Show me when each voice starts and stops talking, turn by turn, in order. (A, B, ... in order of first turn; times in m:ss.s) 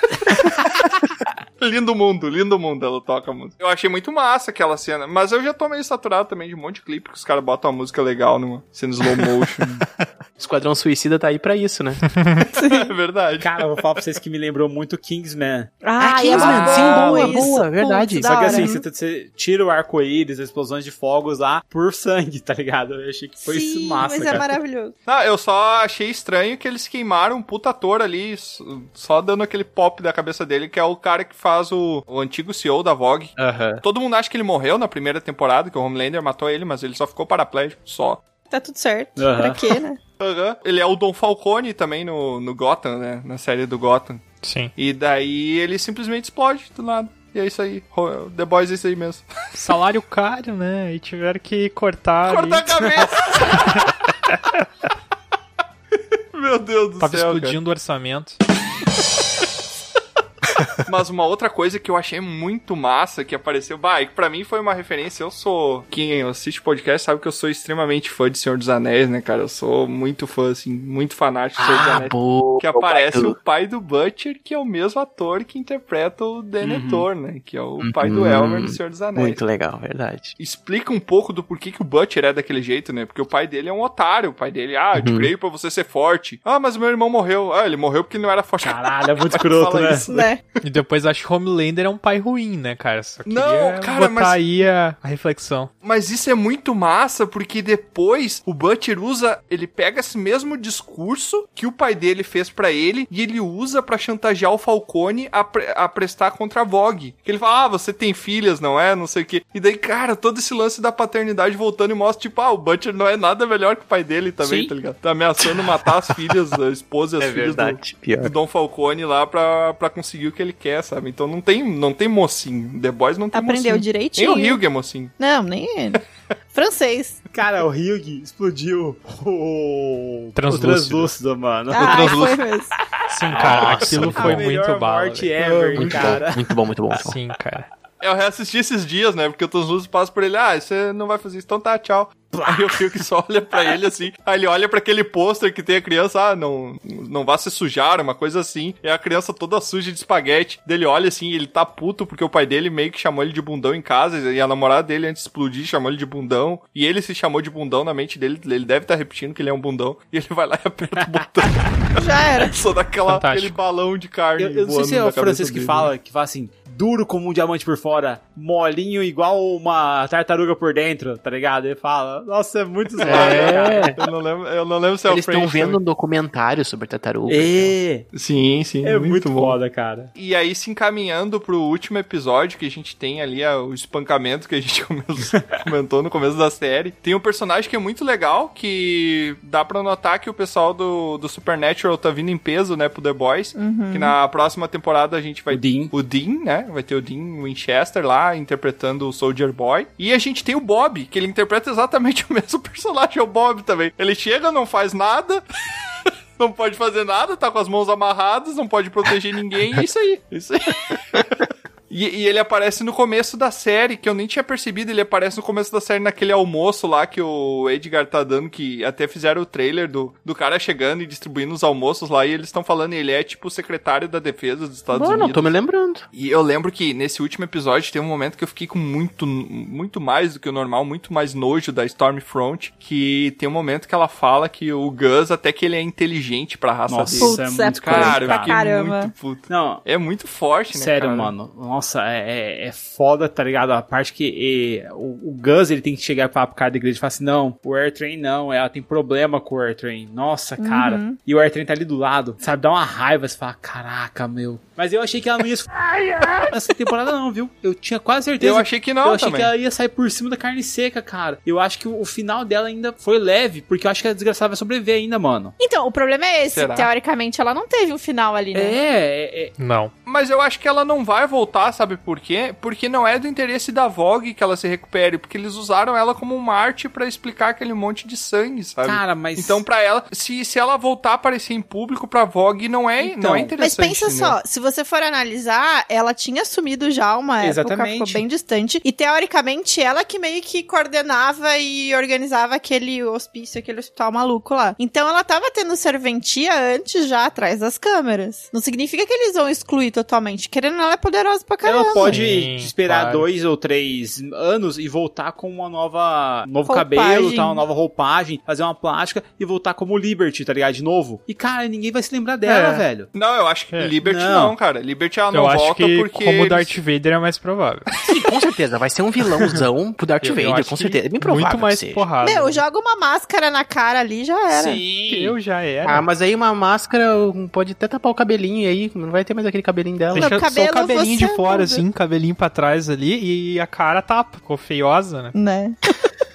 0:01.6-0:09.8 A
0:10.4-0:12.1 B
0:12.1-0:12.4 C
0:12.6-0:12.9 D
0:12.6-0:14.0 A
0:13.4-0:15.7 E
0:15.8-0:18.8 D
0:16.0-0:18.7 B
0:16.3-0:17.6 E
0:18.2-0:24.6 E
0:23.4-0:25.0 D
0:25.1-0:38.2 A
0:33.4-0:33.8 B
0:38.5-0:40.0 D
0:39.2-0:39.7 E
0:40.2-0:44.2 A
0:44.4-0:44.7 C
0:44.8-0:49.2 A
0:49.6-0:53.1 C
0:52.3-0:53.9 A
0:56.3-0:57.6 A
0:57.0-0:58.4 C
1:00.8-1:19.4 A
1:11.6-1:13.4 B
1:16.6-1:17.1 E
1:17.8-1:20.4 B
1:20.4-1:30.3 A
1:24.9-1:25.3 B
1:28.6-1:30.1 E
1:30.1-1:30.4 D
1:30.6-1:35.7 C
1:33.3-1:34.4 A
1:35.8-2:05.1 A
1:54.4-1:54.7 D
1:55.4-1:56.0 B
1:57.2-1:58.3 B
2:03.3-2:04.6 D
2:05.2-2:06.0 D
2:06.5-2:07.2 D
2:07.3-2:12.4 E
2:10.4-2:11.1 C
2:11.7-2:12.7 D
2:11.8-2:12.4 A
2:13.1-2:16.1 C
2:13.4-2:14.4 B
2:13.4-2:16.5 E
2:15.8-2:17.1 B
2:17.0-2:17.7 C
2:18.0-2:45.9 A
2:42.0-2:42.5 D
2:43.1-2:43.6 C
2:44.4-2:53.9 E
2:53.0-2:54.0 B
2:53.0-2:55.8 A
2:55.1-2:57.7 B
2:57.3-2:58.1 E
2:58.1-2:59.6 A
2:58.8-3:00.1 E
3:00.2-3:25.4 A
3:13.6-3:14.2 D
3:15.5-3:15.9 E
3:26.4-3:31.2 A
3:31.9-3:45.6 A
3:44.9-3:46.0 B
3:46.1-4:01.3 A
3:56.9-3:58.6 E
3:57.1-3:59.1 D
3:59.5-3:59.8 E
4:00.7-4:15.7 E
4:10.6-4:11.2 D
4:16.4-4:25.6 E
4:18.4-4:19.5 A
4:25.6-4:28.8 D
4:26.5-4:26.9 A
4:28.6-4:29.5 E
4:29.6-4:29.9 C
4:30.1-4:44.4 A
4:38.8-4:39.6 E
4:43.0-4:43.6 E
4:43.6-5:02.2 D
4:47.4-4:48.2 E
5:01.6-5:13.1 E
5:02.1-5:03.2 C
5:06.7-5:07.6 D
5:12.4-5:12.8 C
5:13.1-5:16.7 A
5:14.0-5:14.6 E
5:15.3-5:17.9 C
5:18.1-5:22.1 B
5:20.2-5:22.6 C
5:22.2-5:24.8 D
5:24.5-5:25.4 E
5:25.1-5:26.0 C
5:25.8-5:30.4 B
5:30.1-5:35.4 C
5:30.1-5:31.8 D
5:35.3-5:36.1 D